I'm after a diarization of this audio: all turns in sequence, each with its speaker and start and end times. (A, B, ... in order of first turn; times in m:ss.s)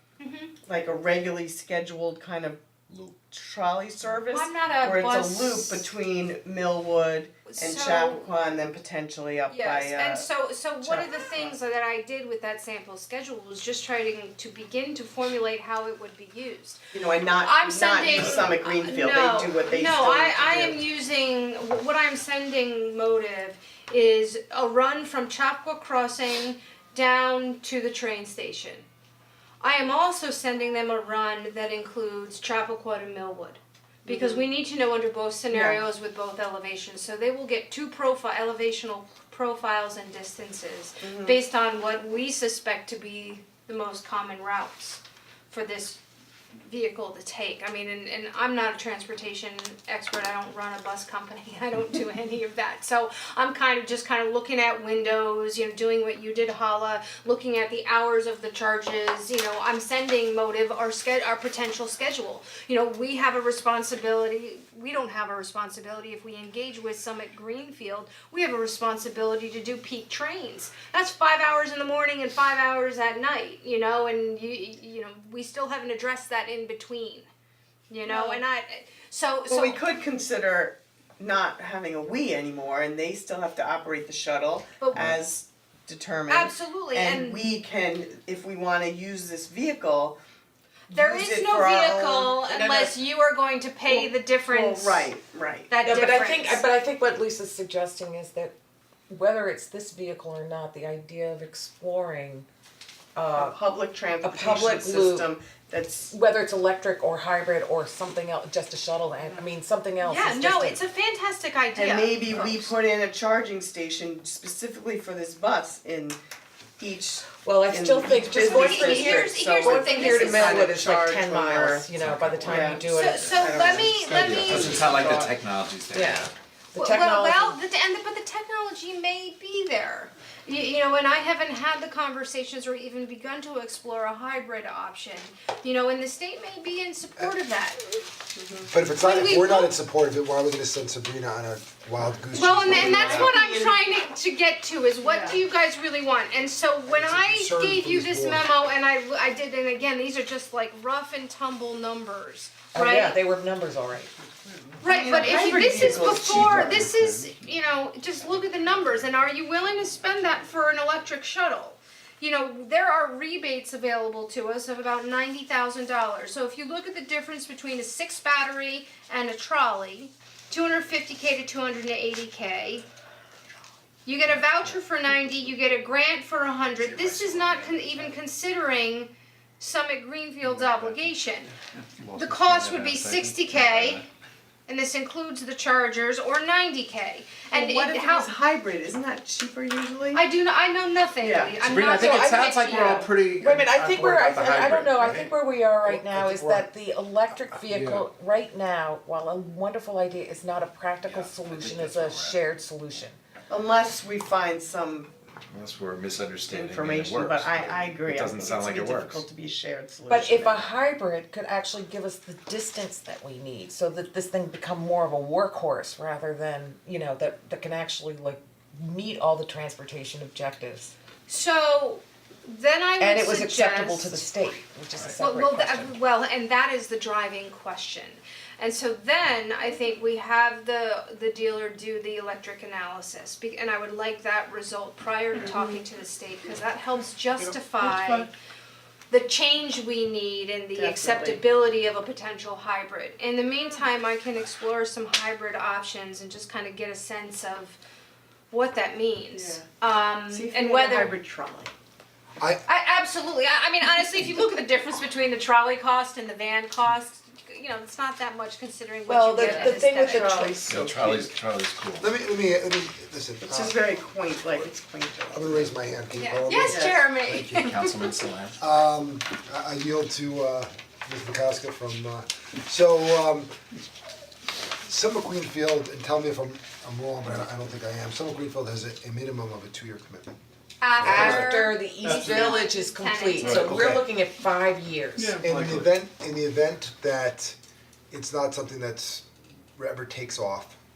0:00.2-0:00.5 A
0:00.6-0:10.3 B
0:04.3-0:05.9 A
0:07.5-0:08.3 A
0:09.5-0:16.8 A
0:10.8-0:11.6 B
0:16.9-0:20.8 B
0:17.4-0:28.9 A
0:29.6-0:46.0 A
0:34.1-0:34.4 B
0:35.5-0:35.8 B
0:41.0-0:41.4 B
0:46.6-1:17.3 A
1:17.9-1:19.8 A
1:18.0-1:18.4 B
1:19.5-1:30.2 B
1:24.8-1:25.1 A
1:26.3-1:27.4 A
1:30.9-1:33.0 B
1:30.9-1:35.1 A
1:33.9-1:35.8 B
1:35.7-1:36.6 A
1:35.9-1:38.5 C
1:39.1-1:42.4 C
1:43.1-1:43.6 C
1:43.3-1:46.2 B
1:44.2-1:45.3 C
1:46.1-1:50.8 C
1:50.0-1:52.6 A
1:51.7-1:56.2 B
1:56.8-2:01.9 B
1:57.4-2:03.2 C
1:58.3-2:00.7 A
2:02.0-2:06.3 D
2:02.4-2:05.3 B
2:02.7-2:05.0 A
2:05.9-2:07.6 C
2:06.8-2:18.0 A
2:18.3-2:18.7 B
2:18.7-2:23.3 E
2:19.0-2:19.7 A
2:22.3-2:33.2 A
2:22.7-2:23.8 B
2:25.0-2:25.4 B
2:26.9-2:28.5 E
2:32.7-2:34.1 C
2:34.8-2:52.9 A
2:34.8-2:36.9 B
2:54.1-3:01.5 A
2:56.8-2:58.1 D
3:00.5-3:01.0 D
3:02.0-3:04.0 D
3:02.2-3:04.0 A
3:04.7-3:08.3 A
3:07.5-3:10.2 B
3:10.1-3:13.1 A
3:11.2-3:11.6 B
3:11.6-3:23.2 C
3:11.7-3:15.3 D
3:15.8-3:16.7 E
3:17.4-3:18.1 E
3:21.0-3:22.4 D
3:23.5-3:25.1 B
3:25.5-3:29.2 D
3:26.5-3:30.7 B
3:30.1-3:40.9 C
3:41.3-3:44.3 A
3:43.0-3:46.0 C
3:45.2-3:58.3 A
3:55.4-3:55.8 B
3:57.8-3:58.2 B
3:59.1-4:07.8 A
4:00.8-4:01.4 B
4:08.5-4:11.2 A
4:09.3-4:09.7 B
4:10.3-4:11.7 B
4:12.4-4:12.6 E
4:12.7-4:20.6 A
4:19.1-4:20.6 C
4:19.4-4:21.3 B
4:20.6-4:22.1 D
4:22.0-4:23.8 E
4:23.4-4:25.7 B
4:25.3-4:27.8 E
4:26.1-4:27.7 A
4:26.7-4:27.0 B
4:27.4-4:28.6 D
4:28.6-4:33.5 E
4:34.8-4:40.4 E
4:40.8-4:43.7 A
4:41.0-4:41.5 E
4:41.0-4:45.4 C
4:43.4-4:43.9 D
4:43.7-4:44.0 E
4:45.2-4:45.9 D
4:45.4-4:47.6 E
4:48.1-4:50.8 E